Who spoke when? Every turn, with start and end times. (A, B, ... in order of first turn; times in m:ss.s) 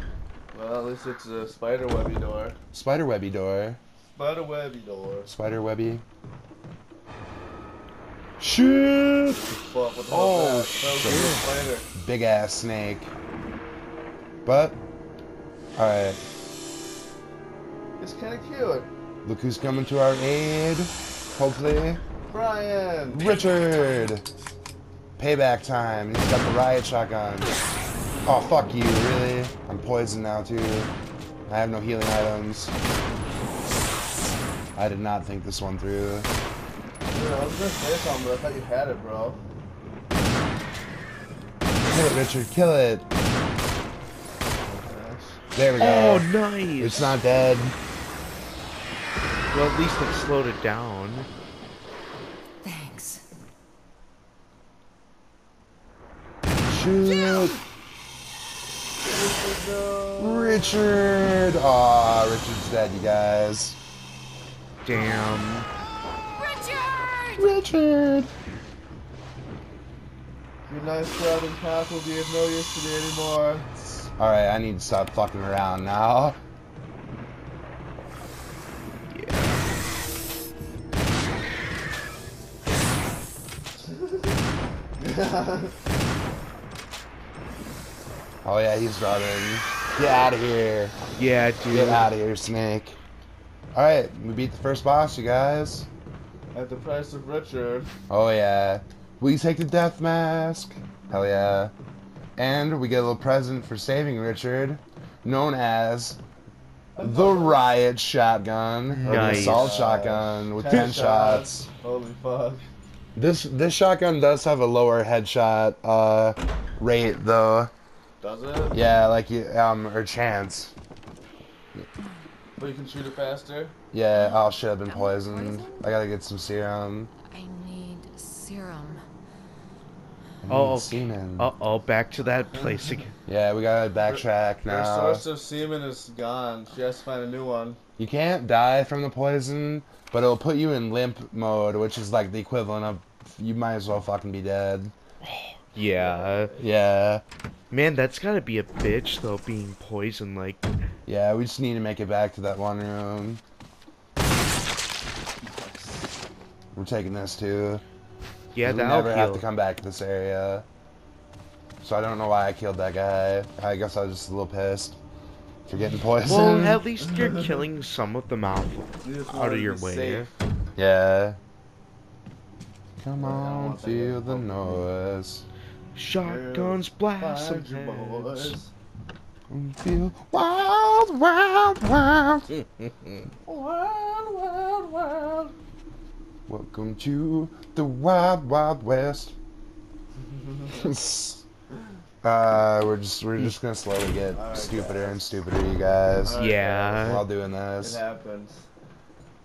0:00.5-0:02.6 A
0:02.7-0:03.8 B
0:04.1-0:05.3 A
0:05.3-0:06.0 B
0:08.4-0:09.5 B
0:09.5-0:11.9 A
0:10.1-0:13.1 B
0:14.4-0:14.8 B
0:15.8-0:16.2 B
0:18.0-0:18.9 A
0:19.2-0:22.0 B
0:22.3-0:23.4 A
0:23.1-0:24.2 B
0:25.2-0:27.5 B
0:28.2-0:30.9 B
0:31.5-0:32.7 B
0:34.8-0:36.3 B
0:37.1-0:39.4 A
0:41.8-0:43.0 B
0:44.6-0:45.4 A
0:45.5-0:47.8 B
0:45.8-0:47.2 C
0:49.5-0:51.3 C
0:52.6-0:53.2 D
0:56.6-0:57.6 B
0:59.0-1:00.9 A
1:00.2-1:03.8 B
1:04.8-1:05.7 C
1:06.3-1:07.4 D
1:07.3-1:08.3 B
1:10.7-1:13.7 A
1:14.2-1:16.4 B
1:19.1-1:19.6 C
1:23.8-1:24.4 A
1:25.0-1:25.7 A
1:28.4-1:31.0 B
1:31.2-1:32.1 C
1:31.7-1:33.0 B
1:33.7-1:35.9 B
1:36.5-1:37.9 A
1:38.1-1:41.7 B
1:42.4-1:46.2 B
1:47.0-1:47.7 A
1:47.0-1:51.7 B
1:48.9-1:49.7 C
1:49.0-1:52.7 A
1:53.1-1:57.7 B
1:58.2-1:58.8 A
1:58.7-2:00.7 B
2:02.6-2:03.7 A
2:03.9-2:07.1 B
2:04.9-2:05.7 D
2:07.2-2:09.0 D
2:10.4-2:11.5 B
2:10.5-2:13.1 C
2:13.2-2:15.2 B
2:14.1-2:17.8 A
2:18.0-2:24.9 B
2:25.2-2:26.5 C
2:25.9-2:26.6 A
2:26.6-2:27.2 B
2:27.7-2:30.7 C
2:31.0-2:33.4 B
2:35.4-2:36.2 A
2:36.7-2:37.8 B
2:38.5-2:39.4 C
2:38.6-2:40.6 B
2:41.8-2:45.0 B
2:45.7-2:46.8 B
2:46.2-2:50.3 C
2:49.0-2:50.4 A
2:50.8-2:51.4 B
2:53.0-2:55.4 B
2:53.2-2:54.9 A
2:55.9-2:58.6 C
2:56.2-2:58.7 A
2:59.5-3:02.5 B
3:03.4-3:05.5 A
3:06.5-3:09.4 B
3:10.2-3:10.9 A
3:10.8-3:11.4 B
3:12.2-3:16.4 B
3:14.3-3:15.4 A
3:16.2-3:17.1 A
3:16.4-3:17.3 C
3:17.0-3:18.0 B
3:17.8-3:18.7 A